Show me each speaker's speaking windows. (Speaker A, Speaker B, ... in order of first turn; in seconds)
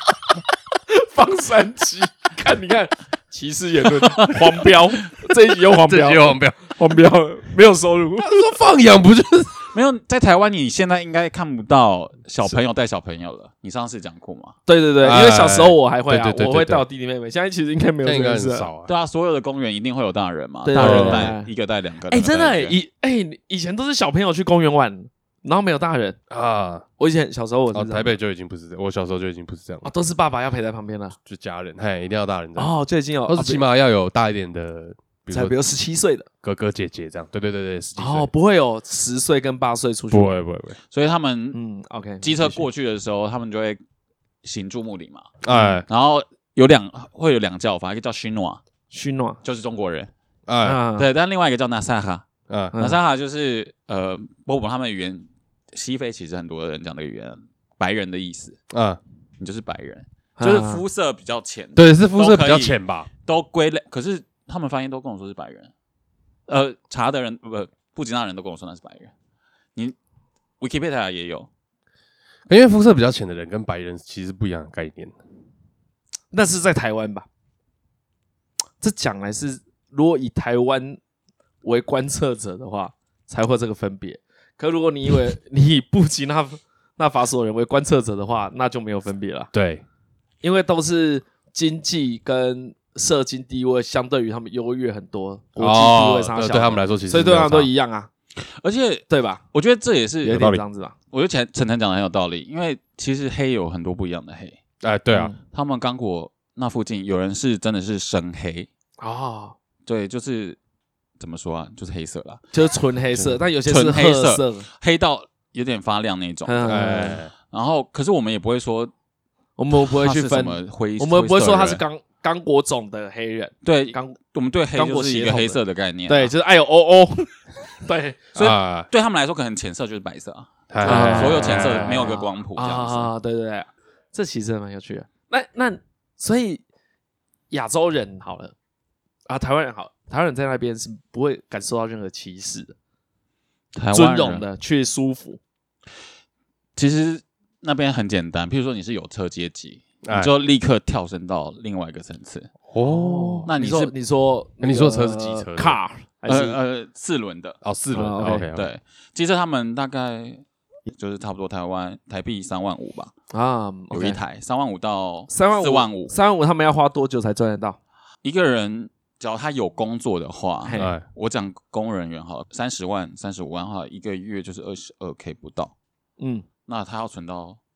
Speaker A: 0.9-8.5, 14.7-18.7, 20.6-21.5, 22.1-26.2, 27.0-28.1, 29.8-31.1, 32.5-33.6, 35.3-36.3, 38.0-40.4, 41.5-42.6, 45.5-45.8, 48.9-49.4, 50.6-51.0, 52.7-53.0, 60.4-60.8, 76.3-77.3, 78.8-81.0, 81.6-89.5, 90.4-98.1, 99.1-99.4, 100.2-100.9, 105.1-105.4, 109.0-109.5, 112.5-114.7, 116.5-117.2, 119.6-124.2, 124.7-128.3, 130.8-136.6, 137.5-138.5, 139.3-142.7, 143.9-145.4, 152.8-156.6, 157.9-158.5, 163.3-164.2, 165.3-167.8, 170.6-170.9, 176.2-176.4
Speaker B: 5.7-6.7, 8.2-9.7, 15.0-16.8, 18.0-18.9, 20.8-21.3, 26.3-26.9, 27.7-29.9, 31.2-32.7, 33.3-35.5, 36.4-38.3, 40.1-40.8, 45.4-45.9, 50.5-50.8, 52.5-52.7, 58.7-59.0, 61.8-63.1, 72.5-75.1, 89.5-89.8, 95.6-97.7, 100.3-100.6, 104.8-105.3, 116.7-117.3, 128.3-128.9, 130.7-132.1, 150.0-150.3, 152.7-153.5, 154.6-155.8, 157.6-158.7, 170.8-171.0
Speaker C: 9.7-14.6, 18.9-22.7, 40.9-41.6, 42.2-43.8, 44.4-45.3, 45.9-48.6, 49.4-50.1, 51.0-58.6, 59.4-65.7, 66.5-69.1, 70.6-71.5, 98.5-100.5, 101.1-104.6, 105.4-108.7, 109.8-110.6, 111.2-112.4, 113.2-118.9, 119.8-121.8, 123.6-126.3, 128.3-133.1, 143.7-144.4, 146.8-152.5, 153.4-153.9, 156.3-157.6, 158.5-163.1, 163.9-166.1, 168.2-175.7, 176.7-177.6